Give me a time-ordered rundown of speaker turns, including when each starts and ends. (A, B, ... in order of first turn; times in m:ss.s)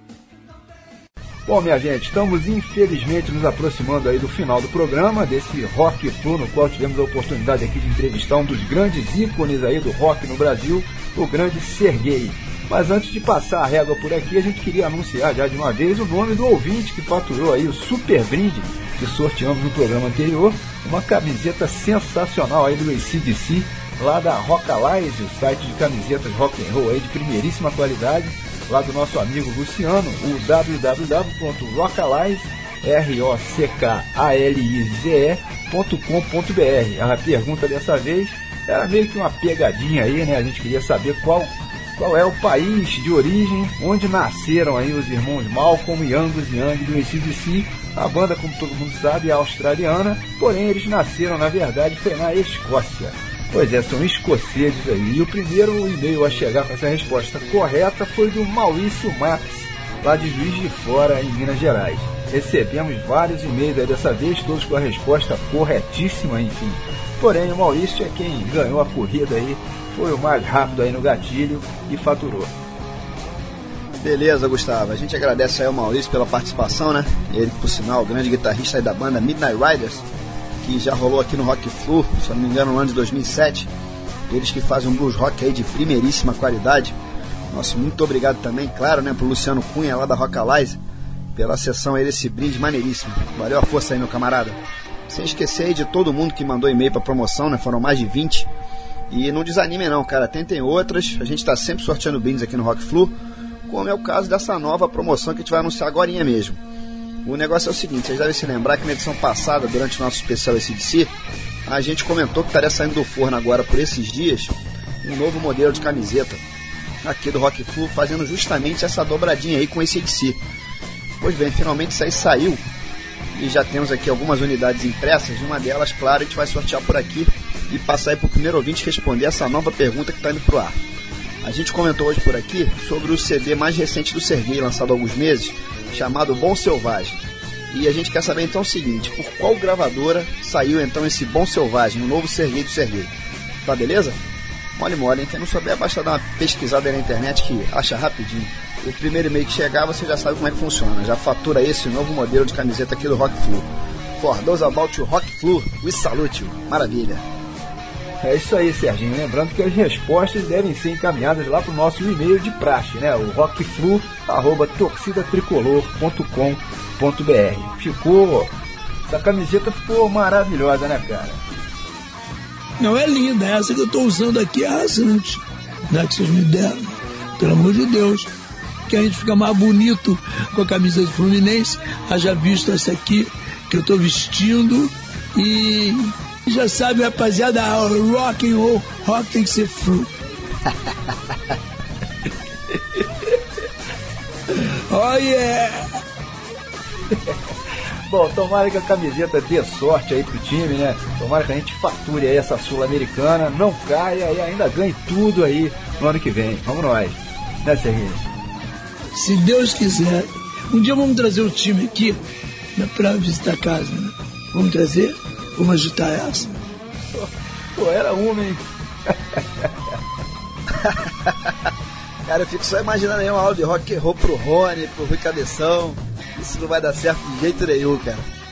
0:01.5-1:12.5 A
1:14.0-1:20.1 B
1:20.6-1:23.7 B
1:24.3-1:27.0 B
1:27.5-1:30.8 B
1:31.4-1:38.5 B
1:39.1-1:43.2 B
1:43.7-1:46.6 B
1:47.2-1:51.1 B
1:51.7-1:56.4 B
1:57.0-2:00.4 B
2:01.2-2:02.6 B
2:03.3-2:10.8 B
2:11.4-2:23.1 B
2:23.6-2:24.2 B
2:24.8-2:37.2 B
2:38.2-2:48.5 A
2:49.1-2:51.4 A
2:52.8-2:58.3 C
2:58.9-3:10.1 C
3:12.7-3:13.0 A
3:14.5-3:16.0 C
3:17.1-3:17.4 A
3:18.1-3:28.2 A
3:29.2-3:32.2 C
3:32.8-3:36.6 C
3:37.1-3:39.7 A
3:40.8-3:41.5 B
3:42.3-3:48.3 B